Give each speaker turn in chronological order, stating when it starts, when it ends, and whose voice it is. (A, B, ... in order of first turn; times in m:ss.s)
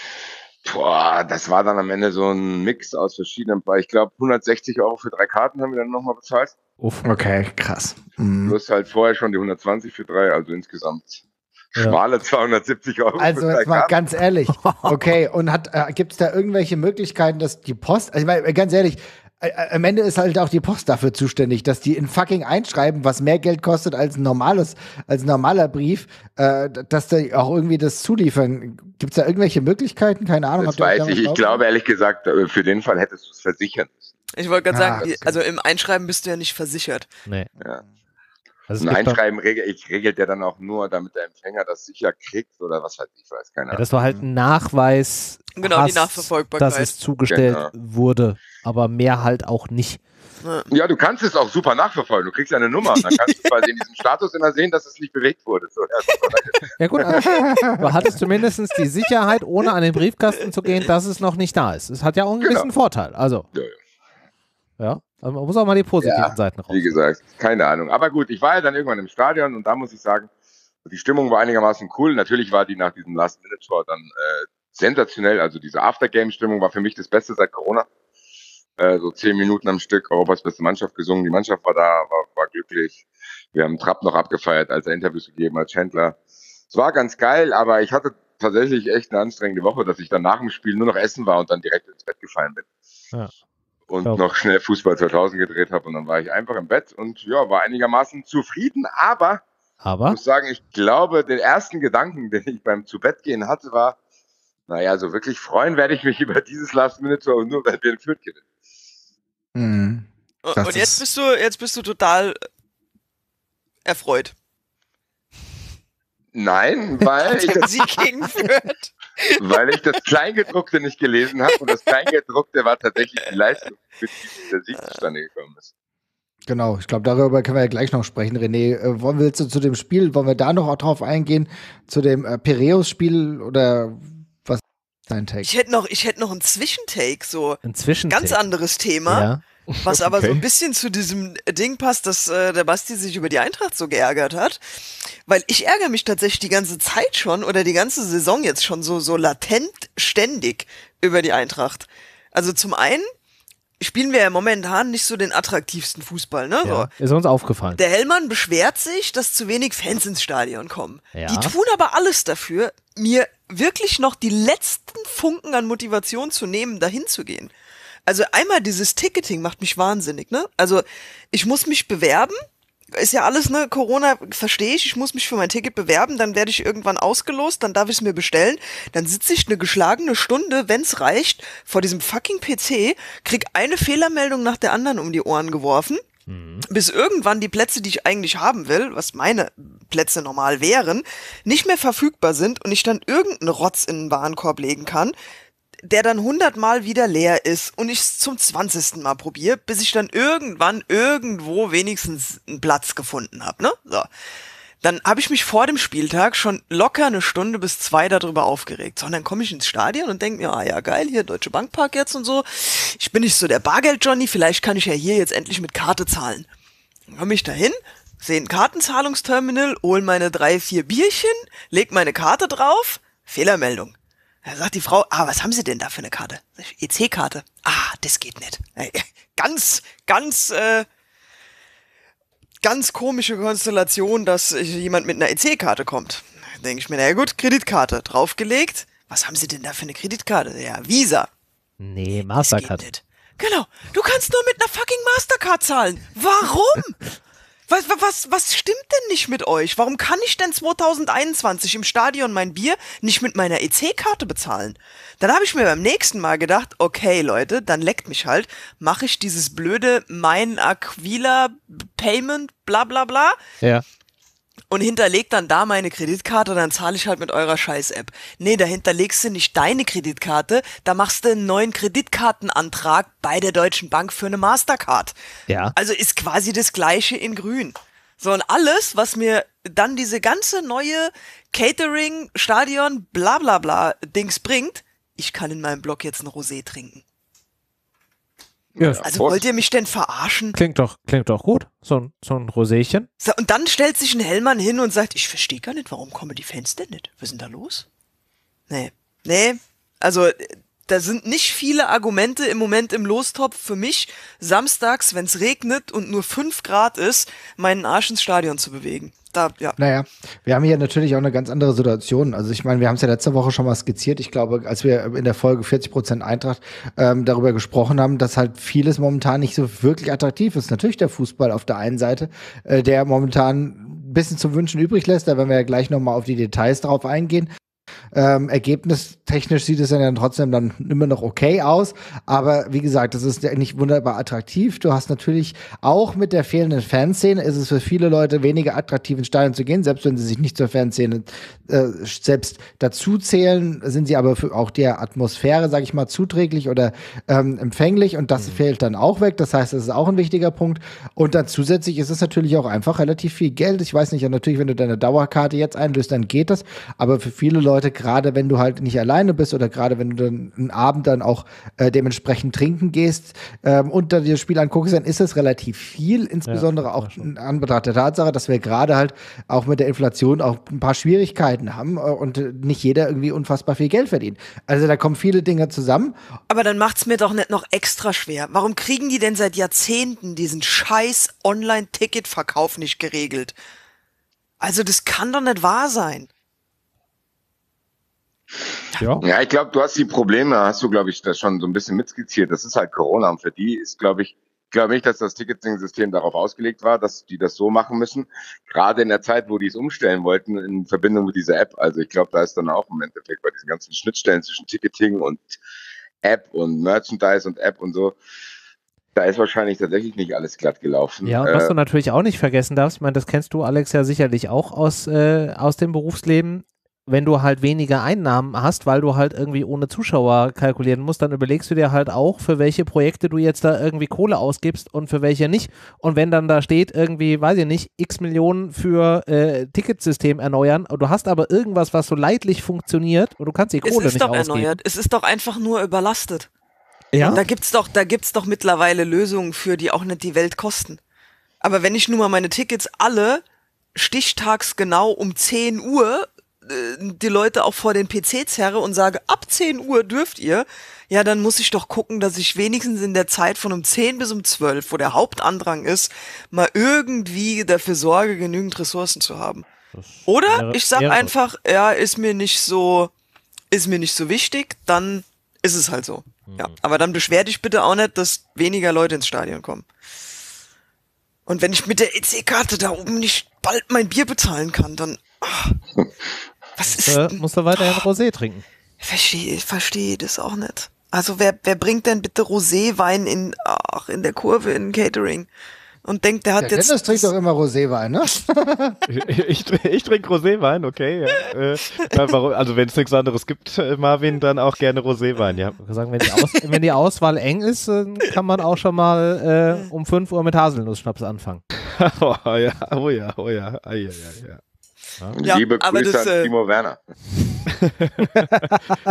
0:00.6-0:06.6 A
0:06.8-0:07.1 B
0:07.0-0:08.6 C
0:08.4-0:11.2 A
0:11.8-0:13.9 A
0:13.2-0:31.6 C
0:14.6-0:14.9 B
0:30.6-0:34.1 A
0:34.4-0:37.1 D
0:34.7-0:35.4 C
0:38.7-0:39.2 B
0:38.8-0:43.8 A
0:43.7-0:50.0 B
0:45.6-0:46.9 D
0:47.3-0:47.7 A
0:50.4-0:50.7 D
0:50.7-0:56.7 A
0:52.9-0:53.2 D
0:56.8-1:03.5 B
0:57.2-0:57.8 C
1:02.4-1:02.7 A
1:04.8-1:07.0 B
1:06.0-1:10.3 A
1:10.8-1:17.9 A
1:18.8-1:26.2 A
1:26.7-1:32.7 A
1:33.9-1:39.4 A
1:39.8-1:40.2 B
1:40.1-1:44.0 A
1:44.7-1:48.4 A
1:49.6-1:51.0 C
1:50.4-1:52.4 D
1:53.8-1:54.3 D
1:56.3-1:58.0 A
1:57.1-1:59.6 D
1:59.4-2:05.7 A
2:06.5-2:15.5 C
2:15.4-2:19.3 D
2:17.6-2:18.4 B
2:19.1-2:19.4 B
2:19.8-2:24.6 D
2:19.8-2:20.4 E
2:25.3-2:33.1 D
2:33.8-2:36.9 D
2:36.6-2:37.8 B
2:37.8-2:47.5 D
2:41.2-2:41.5 B
2:48.1-2:52.4 D
2:52.9-3:06.0 D
3:06.3-3:06.7 B
3:06.7-3:15.2 D
3:15.8-3:24.1 D
3:24.8-3:36.5 D
3:37.1-3:50.9 D
3:52.6-4:01.3 D
4:01.8-4:02.9 B
4:02.4-4:07.0 D
4:07.7-4:23.4 D
4:24.7-4:35.2 D
4:35.5-4:35.7 B
4:35.8-4:47.0 D
4:48.8-4:49.4 A
4:48.8-4:49.0 B
4:49.0-4:50.6 D
4:50.5-4:53.1 B
4:53.2-4:57.9 D
4:58.7-5:09.8 D
5:09.8-5:27.5 C
5:28.1-6:16.2 C
6:06.5-6:07.3 B
6:16.5-6:23.6 D
6:24.6-6:26.3 D
6:29.0-6:29.2 B
6:29.2-6:45.5 A
6:46.2-6:48.2 A
6:49.2-6:51.8 A
6:51.2-7:14.8 B
7:13.8-7:16.5 D
7:17.1-7:17.4 B
7:17.2-7:21.0 D
7:21.6-7:23.4 D
7:24.0-7:39.6 D
7:40.0-7:41.3 B
7:40.3-7:43.1 D
7:43.7-7:49.9 D
7:46.5-7:46.7 B
7:51.5-7:55.8 D
7:56.8-7:58.0 D
7:56.8-7:58.6 B
7:59.0-8:05.5 D
8:06.0-8:07.3 D
8:06.6-8:09.0 C
8:09.1-8:15.8 E
8:15.8-8:21.6 B
8:22.0-8:24.6 E
8:25.3-8:27.0 A
8:25.4-8:26.5 D
8:27.8-8:28.8 E
8:28.4-8:28.8 B